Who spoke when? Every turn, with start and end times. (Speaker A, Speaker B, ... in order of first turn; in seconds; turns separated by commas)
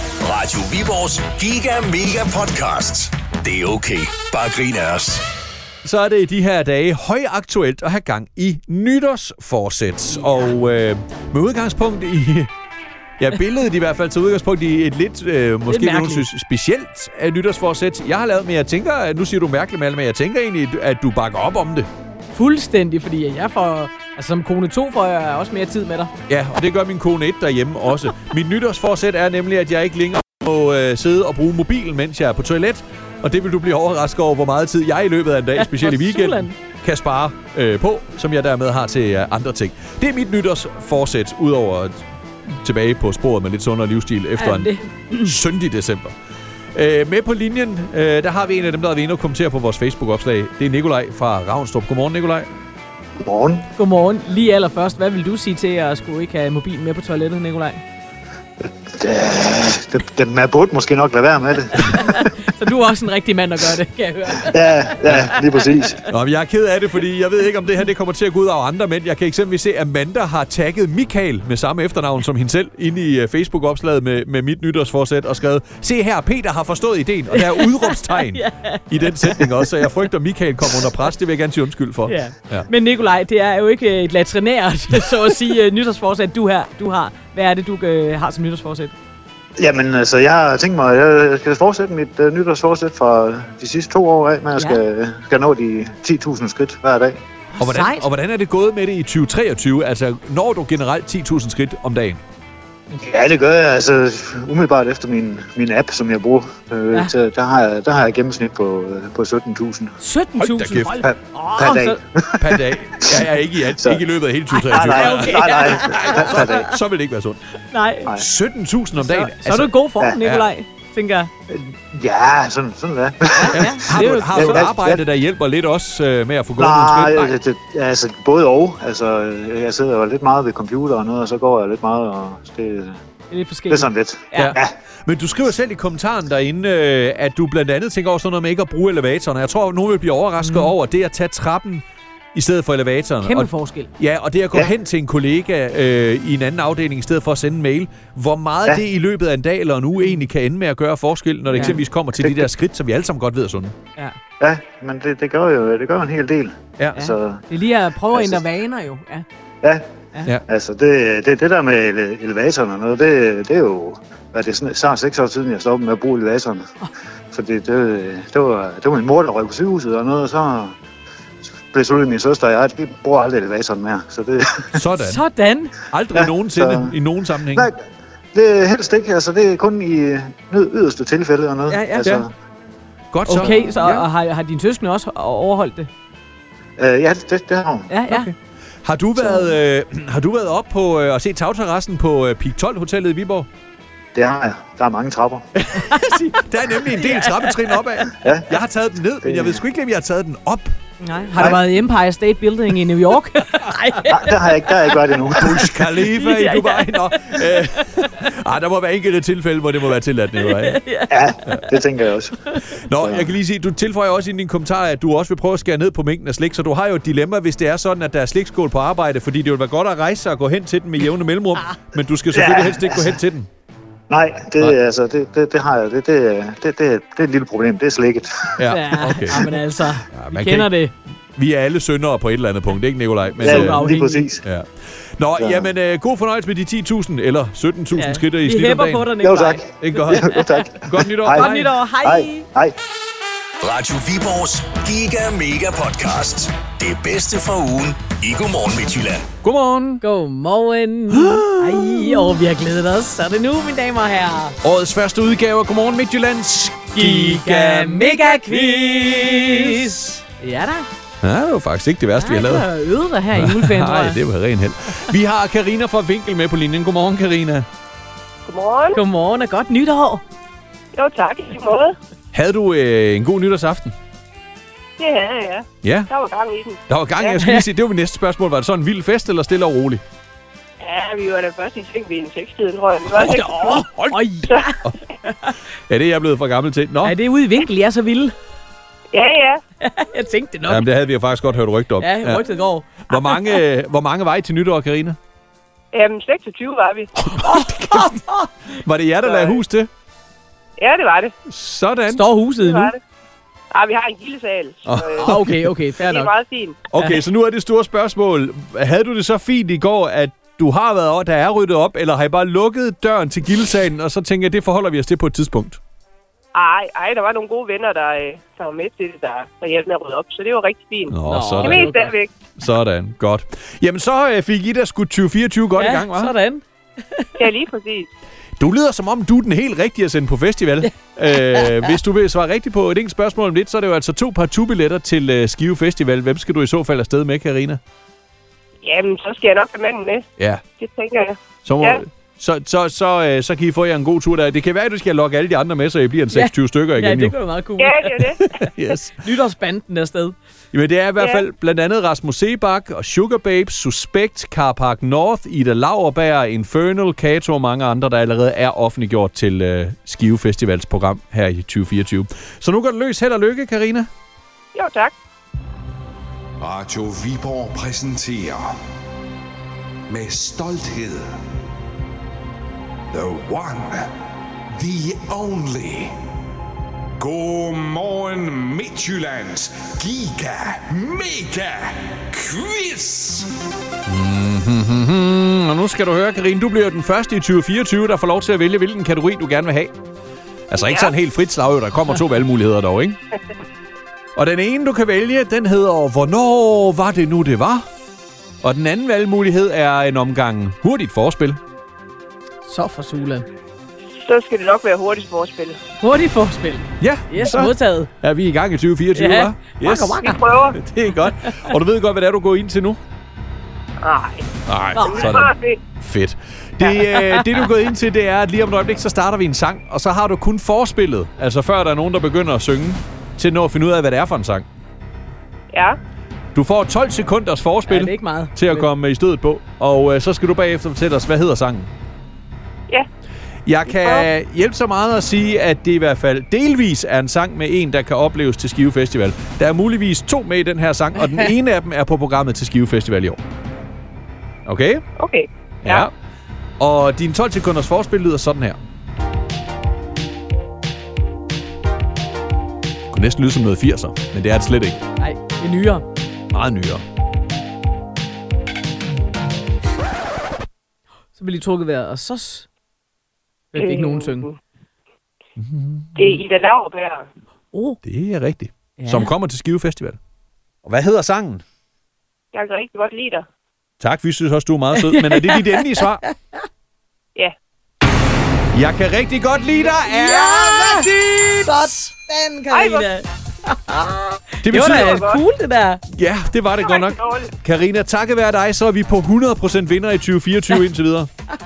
Speaker A: 0.2-5.2, Speaker B: 5.8-12.5, Speaker C: 10.2-10.4, Speaker B: 13.2-21.9, Speaker C: 15.7-16.3, Speaker C: 22.3-26.1, Speaker B: 26.3-46.1, Speaker C: 35.5-36.5, Speaker C: 44.4-45.4, Speaker B: 46.8-52.5, Speaker D: 53.2-53.7, Speaker C: 53.8-57.8, Speaker D: 58.6-62.3, Speaker C: 61.8-65.7, Speaker D: 64.5-66.0, Speaker B: 66.1-82.7, Speaker C: 77.3-79.5, Speaker C: 82.1-88.9, Speaker D: 89.6-97.2, Speaker C: 94.6-94.8, Speaker C: 97.5-98.1, Speaker B: 97.6-102.2, Speaker D: 102.9-110.0, Speaker C: 110.0-112.0, Speaker B: 110.4-111.0, Speaker D: 111.0-114.0, Speaker B: 112.4-117.4, Speaker C: 114.5-116.7, Speaker D: 114.7-116.8, Speaker C: 117.6-118.1, Speaker B: 118.1-120.5, Speaker C: 119.0-121.3, Speaker D: 121.5-125.0, Speaker C: 123.3-124.7, Speaker B: 123.5-127.4, Speaker D: 126.6-133.0, Speaker C: 133.3-134.6, Speaker D: 133.7-134.7, Speaker B: 134.3-153.8, Speaker C: 140.4-140.7, Speaker C: 143.2-143.9, Speaker C: 151.5-151.8, Speaker D: 151.5-152.5, Speaker D: 154.4-157.4, Speaker C: 156.9-159.3, Speaker D: 158.1-158.4, Speaker D: 159.6-159.9, Speaker D: 160.5-166.7, Speaker D: 167.3-170.8, Speaker D: 171.7-174.8, Speaker B: 174.7-175.2, Speaker C: 175.0-175.7, Speaker B: 175.9-177.7, Speaker D: 176.1-176.9, Speaker D: 177.5-177.8, Speaker D: 178.3-182.3, Speaker C: 181.7-182.2, Speaker B: 183.1-184.1, Speaker C: 183.3-185.9, Speaker D: 183.3-183.7, Speaker D: 186.8-187.9, Speaker C: 187.9-188.3, Speaker B: 188.1-193.5, Speaker D: 189.2-189.6, Speaker D: 194.2-195.5, Speaker B: 195.6-200.7, Speaker C: 195.7-198.1, Speaker D: 198.2-198.6, Speaker D: 199.2-199.6, Speaker C: 201.0-208.1, Speaker D: 201.4-201.6, Speaker D: 204.1-205.8, Speaker B: 205.4-210.8, Speaker C: 210.4-211.8, Speaker D: 211.1-212.4, Speaker B: 212.7-223.5, Speaker D: 213.0-213.3, Speaker D: 222.3-223.2, Speaker D: 224.1-228.7, Speaker B: 228.6-229.6, Speaker C: 228.7-230.9, Speaker B: 230.1-230.7, Speaker B: 231.4-233.9, Speaker C: 233.4-234.3, Speaker D: 233.4-234.4, Speaker B: 235.2-239.1, Speaker D: 235.4-235.7, Speaker C: 237.9-240.7, Speaker D: 239.2-241.5, Speaker B: 239.8-241.7, Speaker C: 241.3-242.5, Speaker D: 242.0-242.8, Speaker A: 243.6-249.3, Speaker B: 249.4-250.0, Speaker C: 250.0-254.6, Speaker B: 251.1-252.4, Speaker B: 254.6-260.1, Speaker C: 256.9-260.9, Speaker B: 261.2-262.7, Speaker C: 262.2-264.2, Speaker B: 263.3-267.7, Speaker E: 268.5-269.0, Speaker C: 268.9-270.2, Speaker E: 270.9-272.0, Speaker B: 272.3-273.9, Speaker E: 275.0-276.8, Speaker B: 275.8-276.1, Speaker B: 276.9-280.0, Speaker C: 277.3-277.7, Speaker E: 280.8-283.9, Speaker C: 283.1-285.6, Speaker E: 284.5-284.7, Speaker B: 285.9-287.2, Speaker C: 287.0-288.3, Speaker E: 289.1-289.6, Speaker C: 289.8-290.9, Speaker B: 290.7-292.4, Speaker C: 292.0-293.6, Speaker B: 293.0-295.2, Speaker E: 295.9-297.1, Speaker C: 297.3-298.5, Speaker B: 297.3-299.9, Speaker E: 299.3-299.6, Speaker E: 300.8-301.3, Speaker B: 301.5-302.2, Speaker C: 302.1-302.9, Speaker E: 302.6-303.0, Speaker E: 303.7-305.4, Speaker B: 304.9-305.6, Speaker C: 305.2-306.3, Speaker E: 306.0-306.8, Speaker B: 306.9-315.8, Speaker C: 307.0-307.2, Speaker E: 316.5-322.4, Speaker B: 321.1-321.9, Speaker C: 321.3-322.1, Speaker B: 322.6-326.3, Speaker C: 325.8-327.3, Speaker E: 327.4-328.1, Speaker B: 328.6-337.8, Speaker C: 331.3-332.0, Speaker E: 338.8-340.3, Speaker B: 340.4-340.6, Speaker E: 340.8-342.0, Speaker B: 341.6-347.4, Speaker C: 346.3-348.3, Speaker E: 347.8-348.5, Speaker B: 348.4-349.1, Speaker C: 349.1-350.4, Speaker B: 350.7-364.1, Speaker E: 351.2-351.4, Speaker E: 364.8-365.1, Speaker F: 366.6-368.8, Speaker F: 370.1-371.4, Speaker F: 373.1-374.1, Speaker F: 374.7-376.2, Speaker F: 377.2-383.5, Speaker B: 384.1-389.9, Speaker B: 390.7-393.2, Speaker E: 390.8-391.1, Speaker B: 394.4-397.9, Speaker B: 398.6-401.6, Speaker C: 402.6-403.5, Speaker E: 404.2-405.8, Speaker C: 406.0-408.1, Speaker B: 407.0-413.0, Speaker C: 409.1-410.4, Speaker E: 410.2-410.8, Speaker C: 411.4-411.7, Speaker E: 414.0-414.5, Speaker B: 414.7-424.7, Speaker C: 415.0-415.5, Speaker E: 415.0-415.8, Speaker C: 416.8-417.6, Speaker E: 425.7-426.0, Speaker B: 426.6-431.9, Speaker C: 427.9-428.9, Speaker B: 433.7-443.4, Speaker E: 433.9-434.3, Speaker B: 444.7-445.0, Speaker E: 445.2-446.1, Speaker B: 445.8-446.1, Speaker B: 446.8-448.8, Speaker B: 453.1-455.0, Speaker C: 455.2-456.1, Speaker B: 456.5-457.0, Speaker C: 461.4-462.7, Speaker C: 463.7-464.5, Speaker E: 463.8-464.6, Speaker B: 465.6-466.4, Speaker E: 466.2-467.3, Speaker C: 467.7-468.0, Speaker B: 468.0-470.2, Speaker C: 469.0-469.3, Speaker B: 470.9-471.6, Speaker E: 472.5-473.5, Speaker B: 474.0-476.2, Speaker C: 475.0-476.6, Speaker B: 478.7-482.1, Speaker C: 479.8-486.0, Speaker E: 482.7-483.1, Speaker B: 484.6-485.2, Speaker E: 484.8-485.4, Speaker B: 486.1-491.3, Speaker E: 486.8-487.5